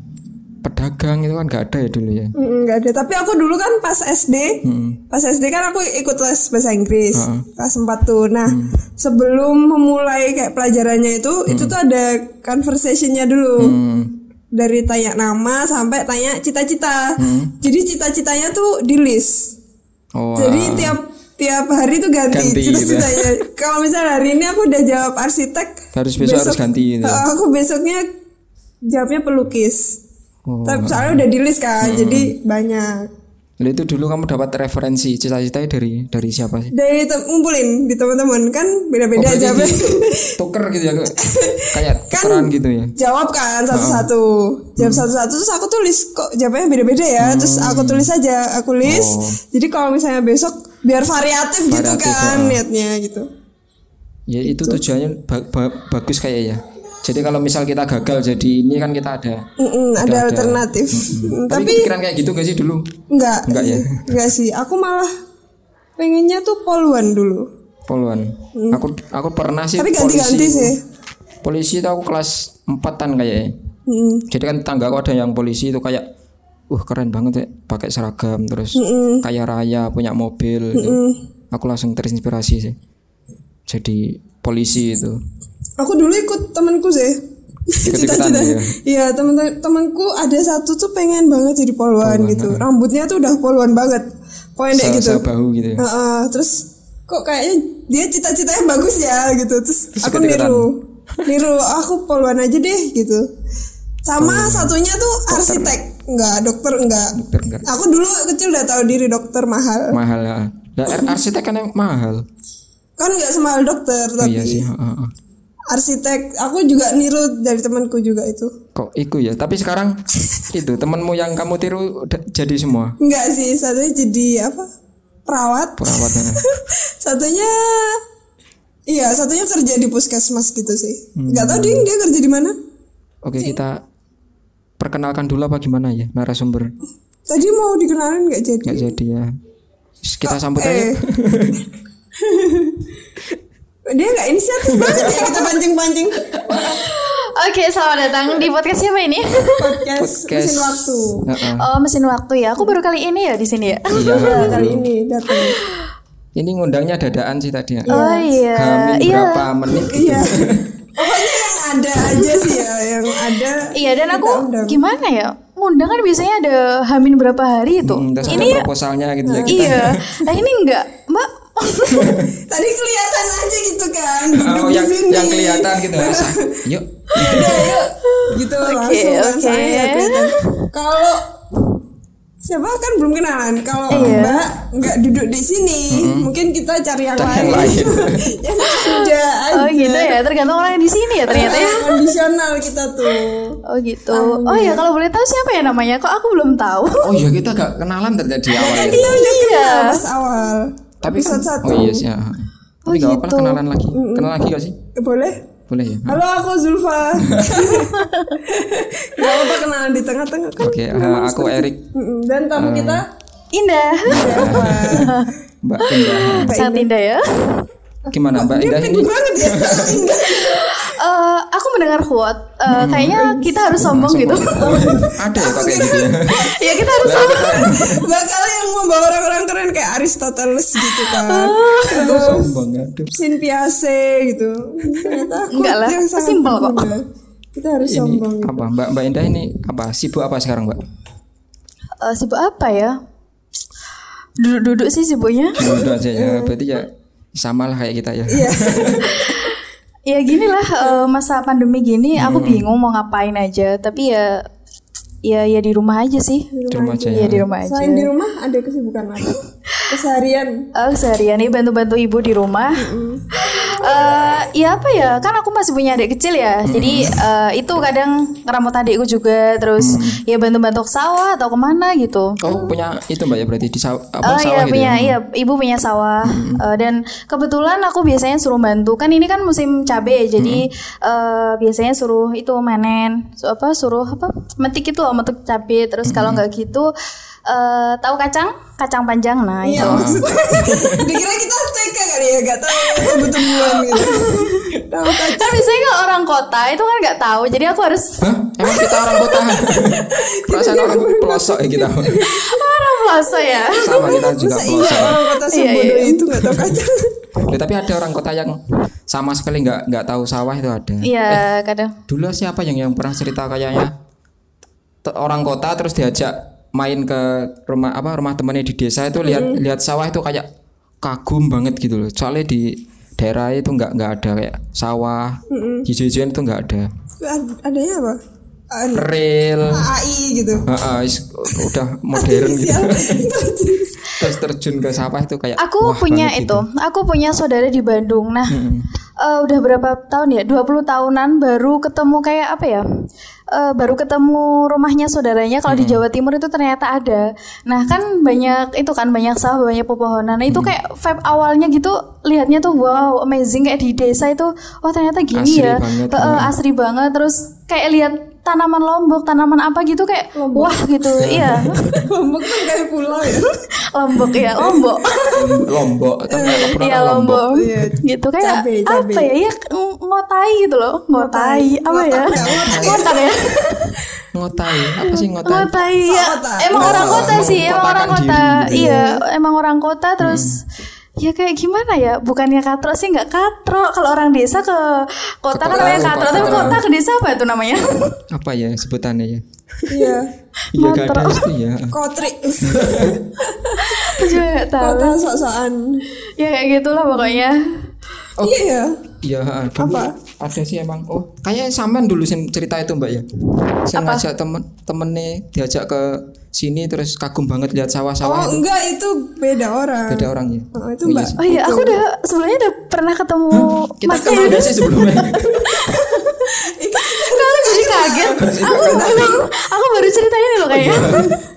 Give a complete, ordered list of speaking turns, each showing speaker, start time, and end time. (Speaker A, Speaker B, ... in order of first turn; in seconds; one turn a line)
Speaker A: 0.6-2.3
Speaker B: 2.4-13.8
Speaker A: 4.6-5.0
Speaker A: 7.1-7.5
Speaker A: 8.4-8.7
Speaker A: 11.5-11.8
Speaker A: 13.6-14.2
Speaker B: 14.5-19.5
Speaker A: 17.2-17.5
Speaker A: 20.1-21.0
Speaker B: 20.4-28.1
Speaker A: 22.3-23.3
Speaker A: 25.9-27.2
Speaker B: 28.9-30.0
Speaker A: 30.5-31.2
Speaker B: 30.6-33.1
Speaker A: 31.8-32.3
Speaker A: 33.6-36.7
Speaker B: 36.7-40.4
Speaker A: 39.1-41.2
Speaker B: 41.1-53.3
Speaker A: 41.7-42.9
Speaker A: 43.7-44.1
Speaker A: 44.8-45.1
Speaker A: 47.2-48.1
Speaker A: 48.8-49.4
Speaker A: 51.7-52.6
Speaker A: 54.3-59.4
Speaker B: 54.5-54.8
Speaker B: 59.6-61.9
Speaker A: 60.0-62.9
Speaker B: 63.1-65.1
Speaker A: 63.5-63.9
Speaker B: 66.0-67.5
Speaker A: 67.9-70.7
Speaker B: 68.5-68.8
Speaker B: 69.8-70.8
Speaker A: 71.4-73.5
Speaker B: 73.9-74.2
Speaker A: 74.3-76.0
Speaker A: 76.7-81.0
Speaker B: 78.8-79.2
Speaker B: 80.7-81.2
Speaker A: 81.5-82.8
Speaker A: 83.7-85.2
Speaker B: 85.8-95.2
Speaker A: 87.8-88.7
Speaker A: 92.0-92.7
Speaker A: 94.7-95.8
Speaker B: 95.8-103.2
Speaker A: 100.0-101.4
Speaker B: 104.0-107.1
Speaker A: 104.2-104.8
Speaker A: 105.3-105.8
Speaker A: 107.1-107.7
Speaker B: 107.7-110.0
Speaker A: 109.9-112.2
Speaker B: 113.0-114.7
Speaker A: 114.2-115.1
Speaker B: 115.7-118.5
Speaker A: 118.7-120.0
Speaker A: 120.5-123.0
Speaker B: 123.0-124.7
Speaker B: 125.3-128.0
Speaker A: 125.8-126.5
Speaker B: 128.9-132.5
Speaker A: 131.2-131.9
Speaker A: 133.2-133.8
Speaker A: 134.8-136.7
Speaker B: 137.3-138.9
Speaker A: 138.6-139.3
Speaker A: 140.0-141.6
Speaker B: 140.3-141.0
Speaker B: 142.2-142.9
Speaker B: 143.9-146.8
Speaker A: 144.6-145.5
Speaker A: 146.3-146.6
Speaker C: 146.5-149.8
Speaker B: 149.6-151.2
Speaker A: 150.0-151.6
Speaker C: 151.6-154.5
Speaker A: 153.9-154.8
Speaker B: 153.9-155.6
Speaker C: 155.3-155.7
Speaker A: 156.3-157.9
Speaker B: 157.9-158.3
Speaker C: 157.9-159.5
Speaker A: 158.5-160.7
Speaker B: 159.8-164.8
Speaker C: 162.0-162.6
Speaker C: 163.7-168.6
Speaker A: 167.8-170.0
Speaker B: 168.2-168.6
Speaker B: 169.2-169.8
Speaker C: 169.5-172.1
Speaker A: 171.9-172.3
Speaker B: 172.5-181.3
Speaker A: 174.3-177.7
Speaker C: 177.4-180.7
Speaker B: 182.4-190.2
Speaker A: 183.9-184.3
Speaker C: 183.9-184.4
Speaker A: 185.9-186.3
Speaker A: 187.2-188.3
Speaker C: 188.6-192.1
Speaker B: 191.3-193.6
Speaker C: 193.7-197.1
Speaker B: 194.1-194.8
Speaker A: 197.0-199.2
Speaker B: 198.5-202.0
Speaker C: 198.7-200.0
Speaker A: 201.0-204.8
Speaker C: 202.9-203.6
Speaker B: 203.9-204.4
Speaker B: 204.9-205.4
Speaker A: 205.7-206.2
Speaker B: 206.1-213.1
Speaker A: 207.2-207.7
Speaker C: 207.7-208.4
Speaker C: 209.2-209.5
Speaker A: 210.6-211.8
Speaker A: 212.5-213.0
Speaker C: 213.5-217.7
Speaker A: 214.1-215.1
Speaker B: 214.1-215.2
Speaker A: 215.6-216.5
Speaker B: 216.4-216.9
Speaker A: 218.1-220.1
Speaker B: 218.3-220.9
Speaker C: 220.3-225.0
Speaker A: 222.7-223.2
Speaker B: 223.1-223.6
Speaker A: 223.8-226.5
Speaker B: 224.5-232.5
Speaker C: 226.3-227.8
Speaker A: 227.0-228.0
Speaker C: 230.8-232.1
Speaker A: 231.9-233.1
Speaker B: 233.1-237.0
Speaker C: 235.1-236.9
Speaker B: 237.5-238.6
Speaker A: 237.8-240.8
Speaker C: 242.0-243.0
Speaker C: 244.4-245.6
Speaker A: 245.6-249.1
Speaker B: 245.6-246.5
Speaker B: 248.3-249.3
Speaker C: 249.1-254.4
Speaker A: 252.2-252.7
Speaker C: 255.2-256.5
Speaker B: 256.5-260.6
Speaker A: 256.7-257.4
Speaker C: 257.0-258.1
Speaker C: 260.7-272.4
Speaker B: 262.8-263.3
Speaker A: 266.6-267.2
Speaker A: 269.8-270.2
Speaker A: 272.4-275.2
Speaker C: 274.2-286.9
Speaker A: 276.2-276.6
Speaker A: 280.4-280.6
Speaker A: 286.0-286.4
Speaker C: 287.5-290.4
Speaker B: 289.6-295.6
Speaker A: 289.8-291.1
Speaker C: 292.9-298.2
Speaker A: 298.2-302.3
Speaker B: 298.7-302.6
Speaker C: 302.2-304.2
Speaker B: 303.7-307.4
Speaker A: 303.8-305.2
Speaker C: 305.4-306.4
Speaker A: 307.5-311.4
Speaker C: 311.0-311.9
Speaker A: 312.1-313.9
Speaker A: 315.0-320.4
Speaker B: 319.2-319.6
Speaker A: 321.0-326.9
Speaker B: 325.5-325.9
Speaker B: 327.2-328.2
Speaker B: 328.7-329.1
Speaker A: 328.9-329.9
Speaker B: 329.6-330.7
Speaker A: 330.6-333.3
Speaker B: 331.5-334.2
Speaker A: 334.1-336.6
Speaker C: 335.6-338.6
Speaker A: 338.5-338.9
Speaker C: 339.2-342.8
Speaker C: 343.5-362.6
Speaker A: 345.7-346.0
Speaker A: 350.5-350.7
Speaker A: 355.3-356.5
Speaker B: 360.3-360.9
Speaker A: 361.2-361.8
Speaker B: 361.9-363.6
Speaker C: 363.2-365.4
Speaker B: 364.2-365.6
Speaker A: 365.3-367.5
Speaker B: 366.3-366.8
Speaker C: 366.4-374.0
Speaker B: 367.5-369.3
Speaker B: 371.1-373.3
Speaker A: 372.3-373.1
Speaker A: 374.3-375.7
Speaker C: 375.0-380.6
Speaker B: 376.0-377.5
Speaker A: 376.8-379.0
Speaker B: 378.7-379.2
Speaker A: 380.2-380.6
Speaker C: 381.2-388.2
Speaker A: 385.5-386.8
Speaker B: 385.7-386.8
Speaker A: 388.3-390.1
Speaker B: 389.9-390.3
Speaker C: 390.7-391.5
Speaker A: 390.7-391.9
Speaker B: 391.9-396.0
Speaker A: 392.6-393.3
Speaker C: 393.7-395.2
Speaker C: 396.4-397.9
Speaker B: 398.4-399.0
Speaker A: 399.2-408.6
Speaker B: 399.8-400.1
Speaker C: 403.9-404.2
Speaker B: 408.2-412.0
Speaker A: 410.1-411.4
Speaker C: 411.4-421.4
Speaker A: 413.5-415.9
Speaker B: 414.3-414.6
Speaker B: 415.9-419.5
Speaker A: 418.4-419.3
Speaker A: 420.7-421.3